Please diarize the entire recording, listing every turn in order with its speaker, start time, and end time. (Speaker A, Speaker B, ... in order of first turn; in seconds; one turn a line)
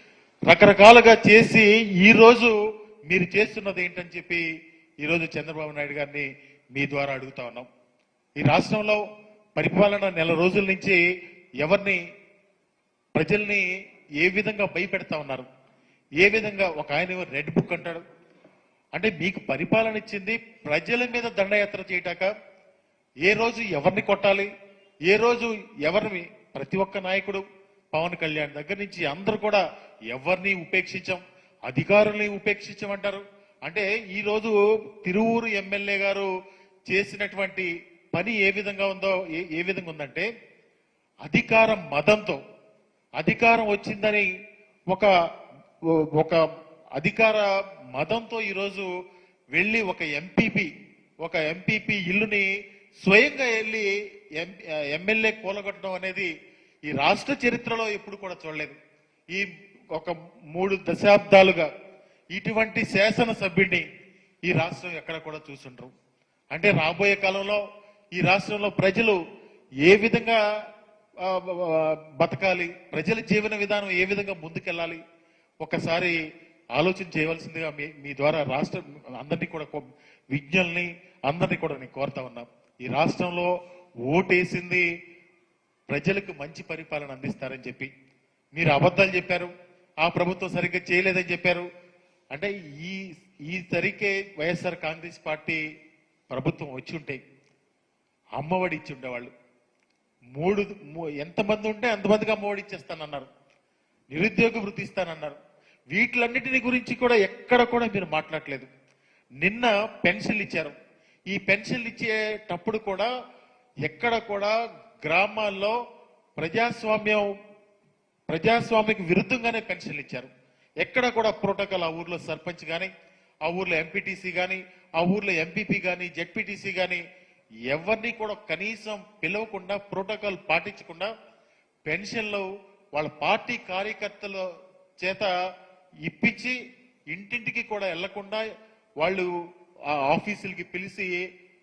Speaker A: 0.5-2.5
Speaker A: 3.1-4.4
Speaker A: 5.0-7.7
Speaker A: 8.4-9.0
Speaker A: 9.6-11.0
Speaker A: 11.6-12.0
Speaker A: 13.1-13.6
Speaker A: 14.2-15.5
Speaker A: 16.2-18.0
Speaker A: 18.9-22.3
Speaker A: 23.2-24.5
Speaker A: 25.1-36.3
Speaker A: 36.9-40.3
Speaker A: 41.2-42.4
Speaker A: 43.2-44.3
Speaker A: 45.9-46.4
Speaker A: 47.0-48.9
Speaker A: 49.5-50.7
Speaker A: 51.2-52.5
Speaker A: 53.0-56.3
Speaker A: 56.9-58.8
Speaker A: 59.3-61.7
Speaker A: 62.3-63.8
Speaker A: 64.4-65.9
Speaker A: 66.5-67.6
Speaker A: 68.1-69.2
Speaker A: 69.8-70.4
Speaker A: 71.2-75.0
Speaker A: 75.6-76.2
Speaker A: 76.8-83.5
Speaker A: 84.1-84.8
Speaker A: 85.9-87.9
Speaker A: 88.5-91.7
Speaker A: 92.3-95.6
Speaker A: 96.3-97.2
Speaker A: 98.4-99.3
Speaker A: 100.3-103.3
Speaker A: 104.1-105.4
Speaker A: 105.9-108.7
Speaker A: 109.4-110.7
Speaker A: 111.3-113.1
Speaker A: 113.8-115.8
Speaker A: 116.4-117.2
Speaker A: 118.3-122.9
Speaker A: 123.4-127.0
Speaker A: 127.7-131.1
Speaker A: 131.8-134.5
Speaker A: 135.0-135.3
Speaker A: 136.1-136.5
Speaker A: 137.1-138.4
Speaker A: 139.0-139.3
Speaker A: 139.9-141.2